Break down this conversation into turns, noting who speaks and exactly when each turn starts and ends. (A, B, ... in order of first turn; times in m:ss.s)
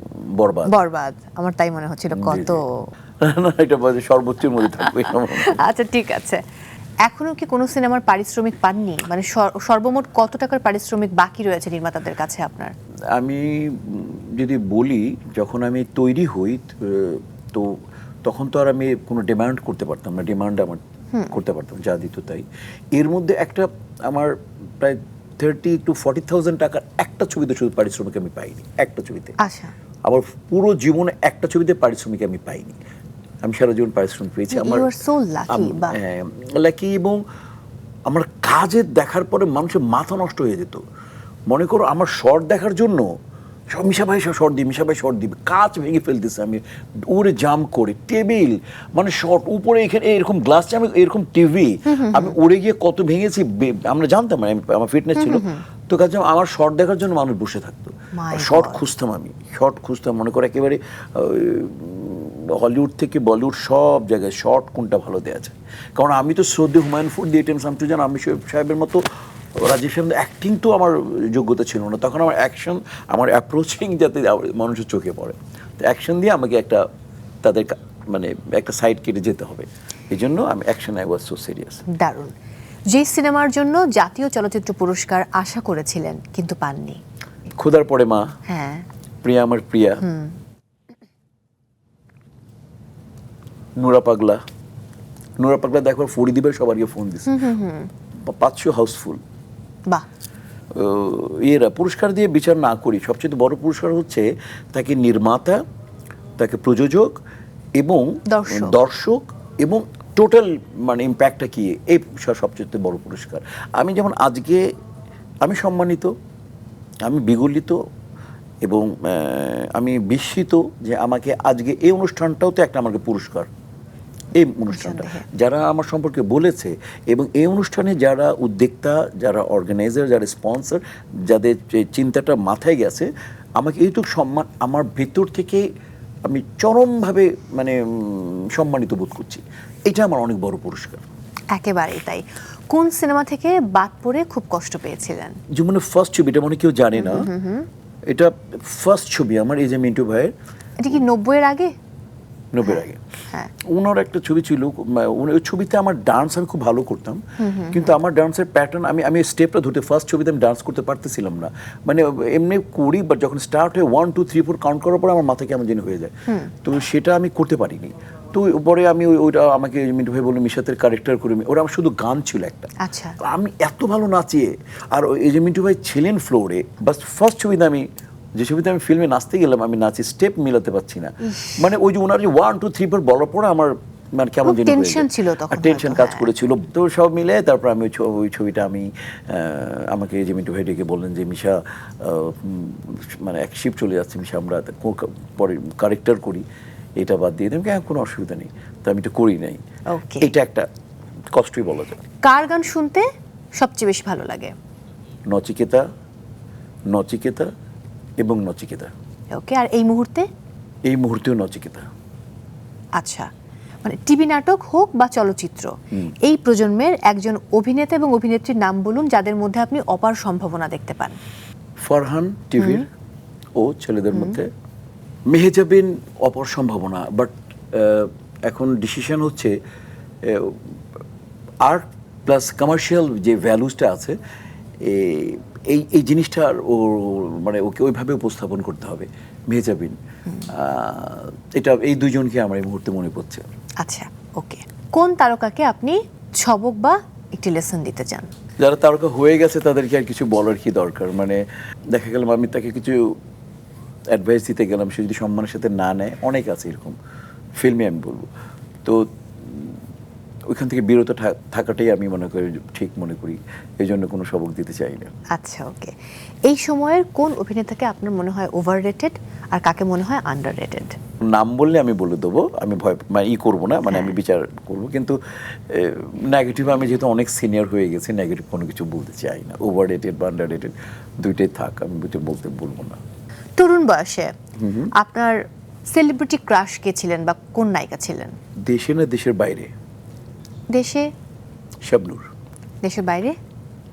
0:00.3-0:00.7 A
0:00.7-0:02.7 B
0:02.2-0:02.6 A
0:03.2-0:05.6 A
0:04.9-0:06.4 B
0:07.0-0:12.7 B
0:13.1-0:29.4 A
0:29.4-0:29.7 B
0:30.0-0:32.8 A
0:33.4-0:34.9 A
0:34.5-0:36.0 B
0:35.5-0:37.2 A
0:38.1-0:40.8 A
0:41.5-0:43.0 A
0:43.7-1:09.0 A
0:51.9-0:52.4 B
0:55.2-0:55.6 B
0:58.1-0:58.8 B
1:09.6-1:16.8 A
1:17.4-1:21.8 A
1:21.9-1:22.3 B
1:22.9-1:27.0 B
1:27.6-1:28.2 A
1:28.5-1:28.9 B
1:29.2-1:30.0 A
1:30.0-1:30.4 B
1:33.8-1:34.4 A
1:35.4-1:37.3 A
1:37.3-1:37.9 B
1:38.3-1:39.2 A
1:40.8-1:45.6 A
1:46.4-1:47.1 A
1:47.8-1:54.6 A
1:48.3-1:48.8 B
1:55.4-1:56.1 A
1:57.1-1:57.8 A
1:58.6-2:03.5 A
2:04.3-2:15.6 A
2:04.7-2:05.2 B
2:16.2-2:21.0 A
2:21.5-2:25.4 B
2:25.5-2:27.3 A
2:27.0-2:27.7 B
2:28.1-2:30.3 A
2:30.8-2:31.7 B
2:32.5-2:33.0 A
2:32.6-2:33.5 B
2:33.7-2:52.7 A
2:37.4-2:38.0 B
2:46.3-2:46.5 B
2:52.8-2:53.2 B
2:53.2-3:16.4 A
3:01.2-3:01.7 B
3:04.4-3:06.3 B
3:17.0-3:19.6 A
3:19.9-3:20.3 B
3:20.2-3:20.7 A
3:21.3-3:22.0 A
3:22.2-3:24.5 B
3:25.3-3:25.8 A
3:26.9-3:27.5 A
3:28.2-3:28.9 A
3:29.3-3:30.3 B
3:30.9-3:31.9 A
3:33.0-3:33.3 B
3:33.8-3:41.2 B
3:41.8-3:42.9 A
3:42.6-3:42.9 B
3:43.6-3:44.5 A
3:45.3-3:49.6 A
3:50.2-3:50.8 A
3:51.6-3:54.2 A
3:54.8-4:00.0 A
4:00.5-4:03.5 A
4:03.8-4:08.3 B
4:08.6-4:11.4 A
4:11.9-4:13.1 A
4:14.1-4:17.0 A
4:17.6-4:18.3 A
4:18.8-4:19.8 A
4:20.5-4:25.1 A
4:25.3-4:30.9 B
4:31.3-4:43.0 A
4:33.9-4:34.1 B
4:43.6-4:44.3 B
4:44.6-4:44.9 A
4:44.9-4:48.4 B
4:48.7-4:49.7 A
4:50.7-4:51.1 B
4:51.8-4:52.3 A
4:52.8-4:53.4 B